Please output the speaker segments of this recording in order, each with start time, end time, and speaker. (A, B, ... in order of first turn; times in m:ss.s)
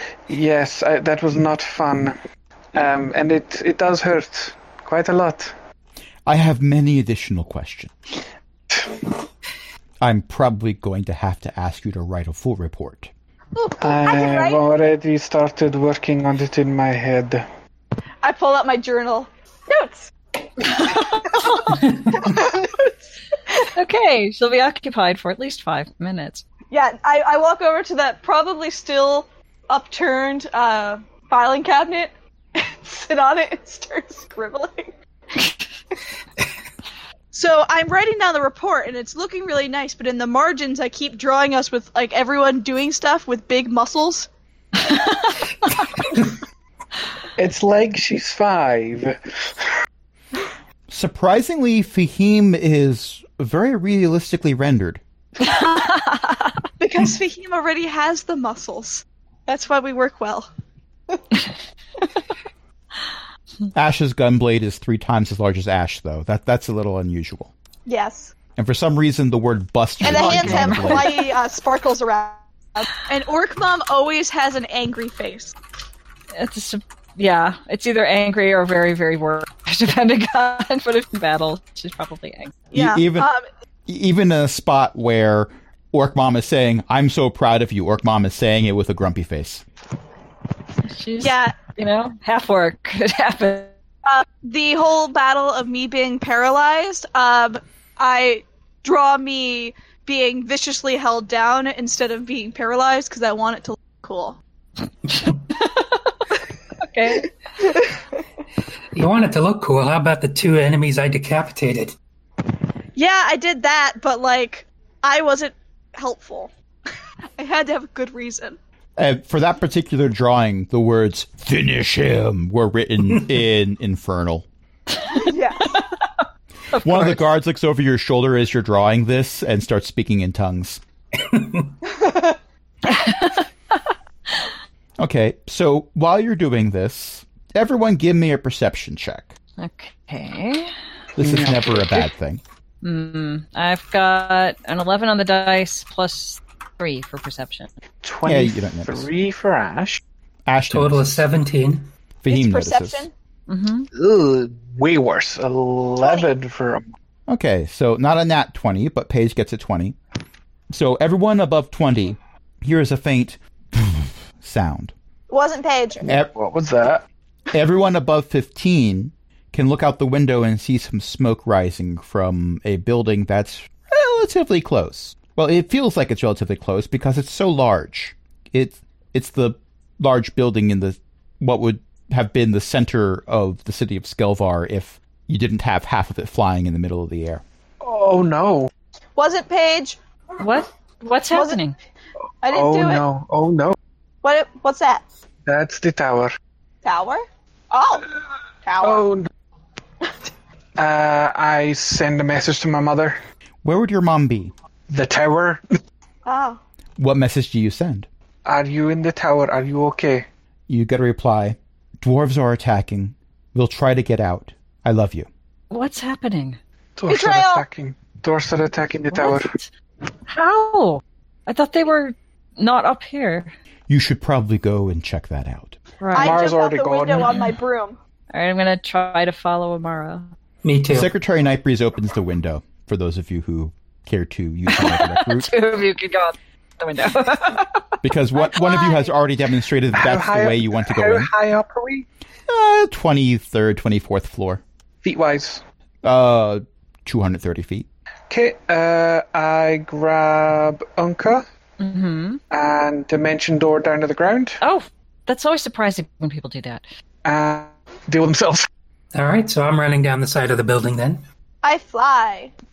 0:00.3-0:02.2 A
0:02.7-0:05.5 A
0:06.2-0:07.9 B
0:08.7-0:09.0 A
0:10.0-0:13.1 B
0:13.5-0:14.6 C
0:13.8-0:17.4 A
0:18.2-0:20.1 C
0:20.7-0:22.9 C
0:20.8-0:22.2 D
0:23.8-0:26.4 D
0:26.7-0:34.9 C
0:37.3-0:44.3 C
0:47.4-0:49.7 A
0:50.9-0:55.0 B
0:55.4-0:56.0 C
0:56.8-1:00.5 C
1:03.7-1:07.5 B
1:07.8-1:08.3 C
1:08.6-1:11.1 B
1:10.0-1:15.6 C
1:10.1-1:11.3 D
1:16.3-1:22.6 D
1:22.7-1:23.4 C
1:22.7-1:23.3 B
1:23.9-1:29.6 B
1:30.9-1:33.7 D
1:31.2-1:31.6 C
1:34.0-1:44.4 C
1:45.5-1:46.0 D
1:46.8-1:47.3 D
1:48.9-1:52.0 E
1:53.0-1:56.5 C
1:57.4-1:58.6 C
1:59.0-2:04.4 B
2:05.1-2:05.9 D
2:05.1-2:05.8 C
2:06.7-2:07.2 D
2:06.7-2:10.8 B
2:11.9-2:12.3 C
2:12.9-2:13.4 D
2:15.0-2:19.3 B
2:19.6-2:20.7 D
2:21.2-2:22.4 B
2:21.2-2:22.0 A
2:22.8-2:27.7 D
2:28.0-2:30.0 A
2:28.2-2:29.1 B
2:30.4-2:31.2 B
2:30.7-2:31.9 E
2:32.2-2:33.1 B
2:32.3-2:33.1 C
2:33.5-2:33.9 D
2:33.9-2:36.9 A
2:36.0-2:36.3 C
2:37.3-2:40.0 B
2:40.7-2:44.9 B
2:45.3-2:46.0 C
2:46.1-2:47.0 A
2:47.5-3:07.4 B
3:07.8-3:08.7 A
3:09.2-3:10.0 C
3:10.4-3:11.8 D
3:11.3-3:11.6 C
3:12.4-3:13.0 C
3:12.5-3:13.8 A
3:14.2-3:15.0 C
3:15.5-3:16.3 A
3:16.8-3:18.1 C
3:18.6-3:19.0 C
3:18.8-3:19.3 A
3:20.8-3:23.2 A
3:23.6-3:24.5 B
3:24.9-3:25.6 A
3:26.2-3:26.6 C
3:27.0-3:28.1 B
3:28.4-3:30.2 A
3:30.7-3:35.3 B
3:35.7-3:36.6 D
3:37.0-3:39.5 A
3:37.1-3:37.6 C
3:39.1-3:39.7 D
3:40.3-3:43.5 D
3:43.9-3:45.8 B
3:46.0-3:46.4 D
3:46.1-3:48.0 C
3:46.1-3:47.3 A
3:48.3-3:50.3 D
3:50.6-3:51.1 E
3:50.9-3:55.5 B
3:54.7-3:57.8 D
3:58.0-4:01.3 B
3:58.4-3:59.1 C
3:59.9-4:02.1 A
4:02.5-4:04.6 B
4:05.0-4:05.6 A
4:06.0-4:07.9 B
4:08.3-4:11.4 A
4:11.8-4:12.4 D
4:12.5-4:14.6 A
4:14.6-4:16.8 D
4:17.2-4:18.7 A
4:19.1-4:21.2 E
4:21.6-4:22.5 C